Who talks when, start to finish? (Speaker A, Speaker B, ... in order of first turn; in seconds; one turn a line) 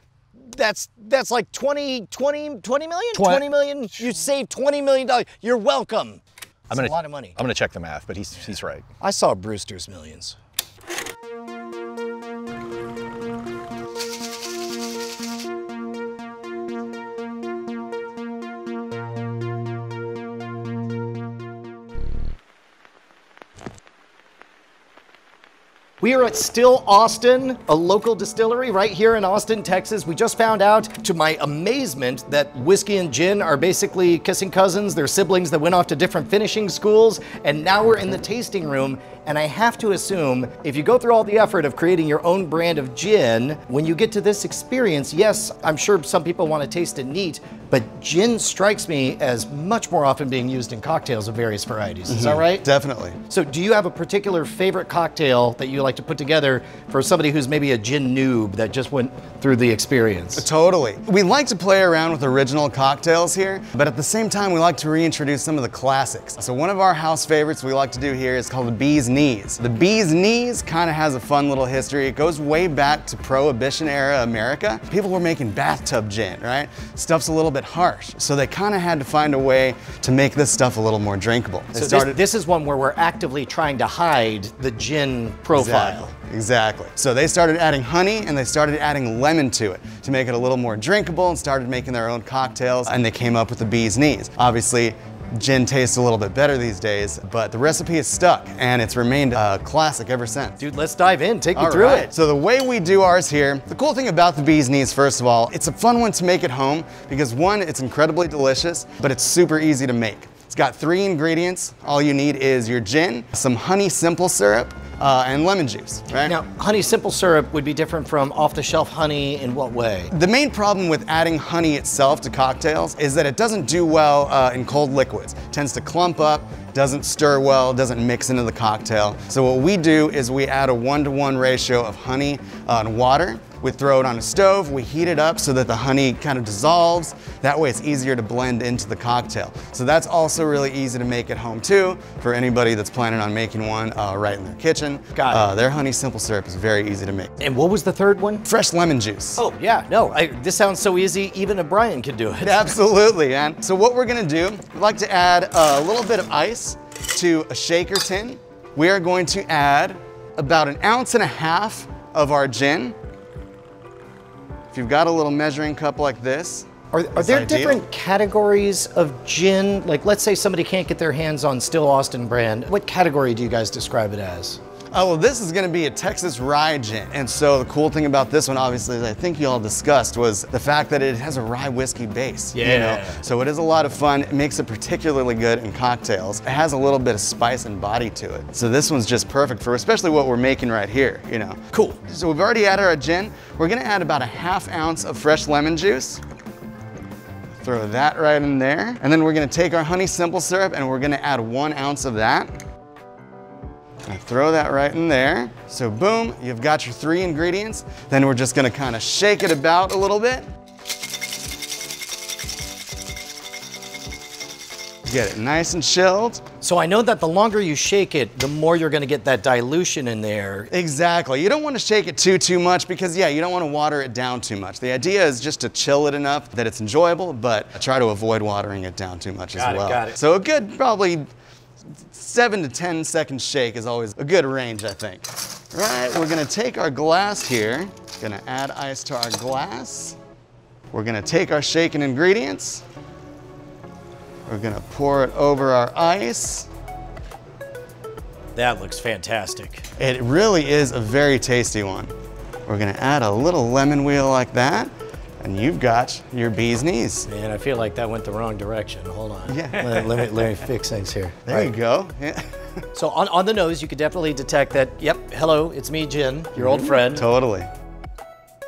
Speaker A: 0.4-7.4
Speaker B: 3.1-3.5
Speaker B: 6.7-8.8
Speaker A: 9.0-10.4
Speaker A: 26.0-52.6
Speaker C: 52.1-53.2
Speaker A: 53.3-60.5
Speaker C: 60.4-82.2
Speaker A: 81.7-86.1
Speaker C: 85.5-100.6
Speaker A: 100.6-102.1
Speaker C: 101.5-116.4
Speaker A: 116.2-120.1
Speaker C: 120.1-147.3
Speaker A: 145.2-145.5
Speaker A: 147.4-148.5
Speaker C: 148.4-149.4
Speaker A: 149.4-152.8
Speaker C: 152.4-163.0
Speaker C: 164.7-167.8
Speaker A: 166.9-174.6
Speaker C: 174.9-196.2
Speaker A: 182.5-183.2
Speaker A: 191.7-192.0
Speaker C: 197.6-202.5
Speaker C: 204.1-210.5
Speaker C: 215.1-216.4
Speaker A: 216.6-220.7
Speaker C: 220.7-231.3
Speaker A: 229.6-230.2
Speaker C: 232.0-240.2
Speaker C: 240.9-242.8
Speaker C: 244.5-246.7
Speaker A: 248.6-249.9
Speaker C: 250.0-252.1
Speaker C: 252.7-257.3
Speaker A: 257.3-261.7
Speaker C: 259.5-260.3
Speaker C: 261.5-262.4
Speaker A: 262.9-267.3
Speaker C: 266.6-267.7